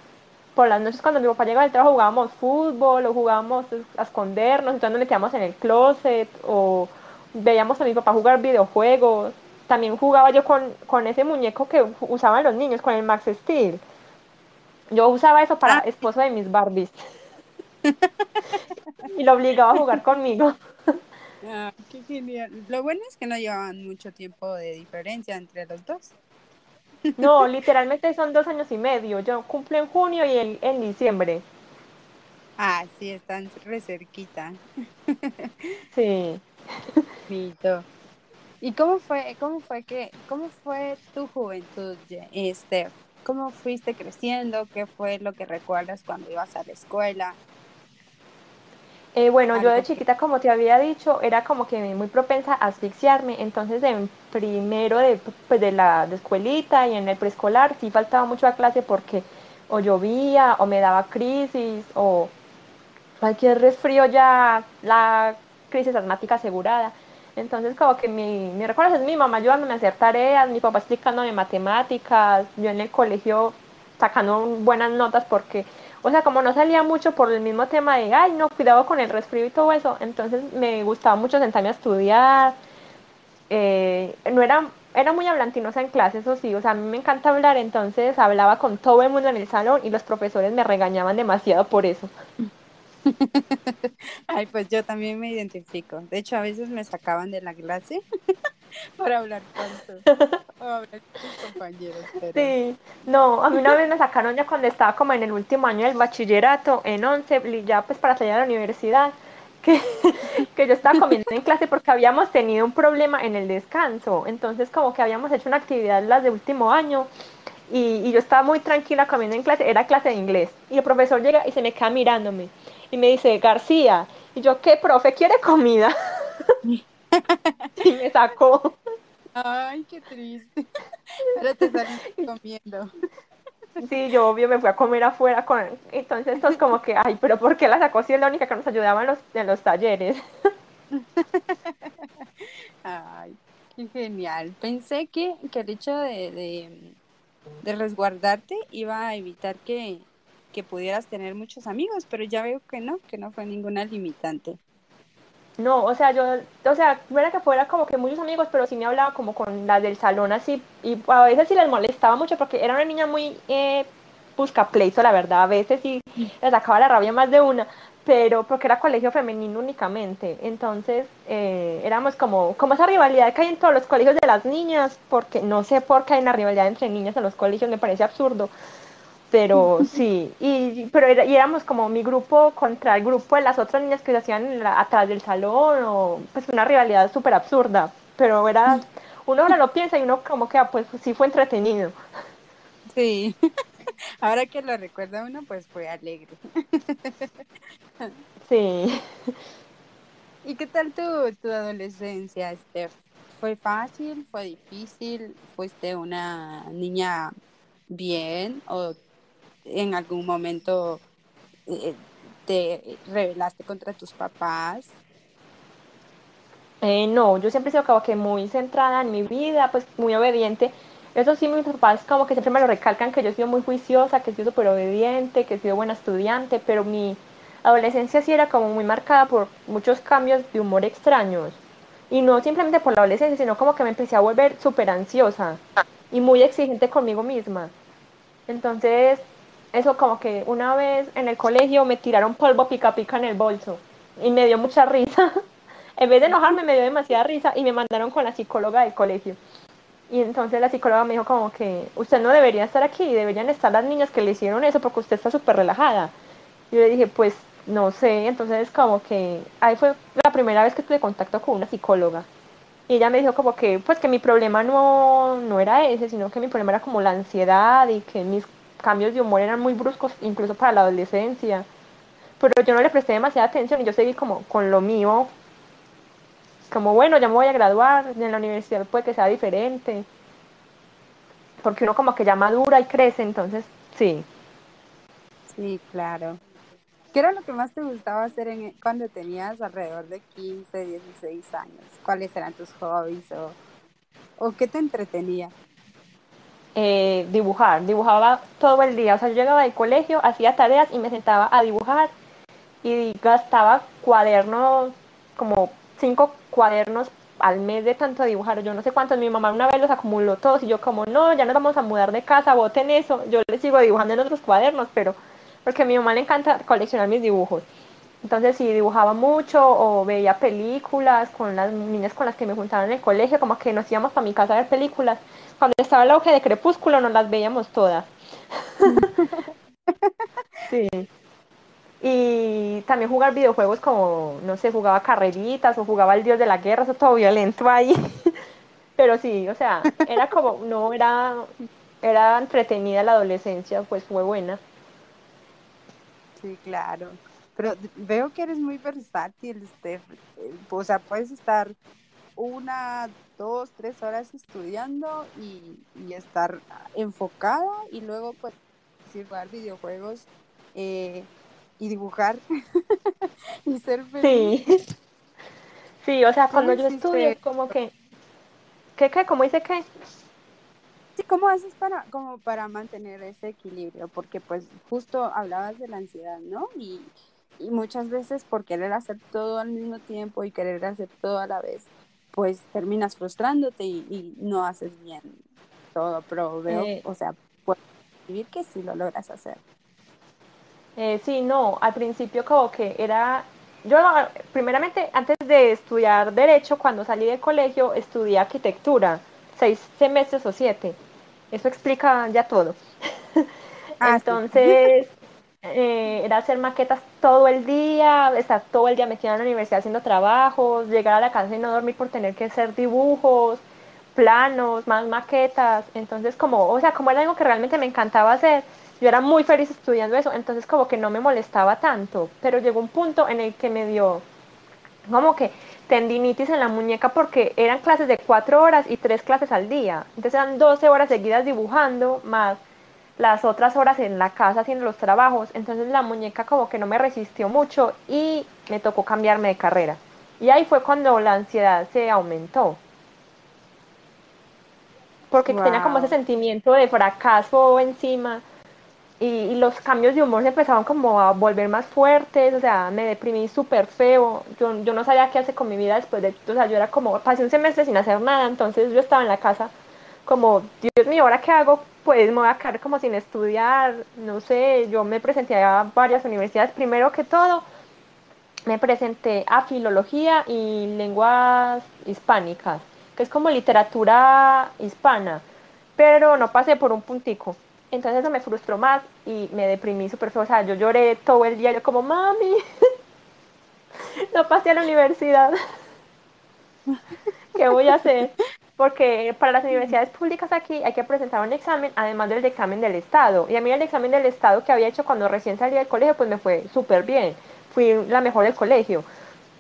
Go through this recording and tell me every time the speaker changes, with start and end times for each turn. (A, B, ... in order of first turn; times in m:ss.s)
0:00.6-0:13.8 A
0:14.9-0:17.0 A
0:17.8-0:18.6 B
0:19.0-0:21.0 A
0:21.4-0:26.2 B
0:27.2-0:31.4 A
0:32.6-0:35.8 B
0:35.9-0:37.1 A
0:37.3-0:37.9 B
0:38.6-0:47.4 B
0:49.2-1:02.3 A
0:49.5-0:50.0 B
1:03.2-1:22.6 A
1:23.5-1:32.1 A
1:33.0-1:38.0 B
1:39.0-1:40.1 B
1:40.6-1:42.5 B
1:42.3-1:57.1 A
1:57.7-2:06.6 A
2:06.7-2:07.7 B
2:07.8-2:08.8 A
2:09.4-2:12.9 B
2:13.8-2:20.2 A
2:20.9-2:27.0 B
2:27.6-2:34.6 B
2:35.6-2:58.5 A
2:59.3-3:12.0 A
3:12.9-3:13.4 B
3:14.2-3:17.4 B
3:18.5-3:19.4 A
3:20.4-3:27.3 B
3:27.9-3:29.0 B
3:29.6-3:31.0 B
3:31.7-3:34.9 B
3:36.8-3:51.6 A
3:52.1-3:57.7 A
3:58.5-4:05.3 A
4:06.0-4:09.4 A
4:10.1-4:16.1 A
4:16.7-4:22.3 A
4:22.9-4:31.7 A
4:32.4-4:35.3 A
4:36.7-4:40.1 A
4:41.6-4:44.3 A
4:45.5-4:46.4 B
4:47.1-4:53.6 B
4:54.4-4:55.5 B
4:56.8-5:02.1 A
5:02.8-5:17.6 A
5:18.2-5:28.1 A
5:28.8-5:29.1 A
5:28.8-5:30.3 B
5:30.7-5:31.1 A
5:32.0-5:38.4 A
5:39.0-5:44.6 A
5:46.4-5:51.8 B
5:52.4-5:58.5 B
5:59.0-6:04.5 B
6:04.2-6:04.8 A
6:06.0-6:07.9 A
6:06.5-6:07.4 B
6:09.0-6:09.8 A
6:11.2-6:25.4 B
6:25.9-6:29.6 B
6:26.7-6:27.0 A
6:31.0-6:41.0 A
6:41.5-6:42.8 A
6:44.0-6:44.9 B
6:44.0-6:53.6 A
6:54.2-7:04.2 A
7:05.1-7:12.6 A
7:13.2-7:22.8 A
7:25.3-7:28.4 A
7:25.5-7:26.2 B
7:29.2-7:39.7 A
7:40.3-7:47.6 A
7:48.7-7:55.4 A
7:56.0-8:02.6 A
8:04.2-8:05.6 A
8:07.5-8:19.1 A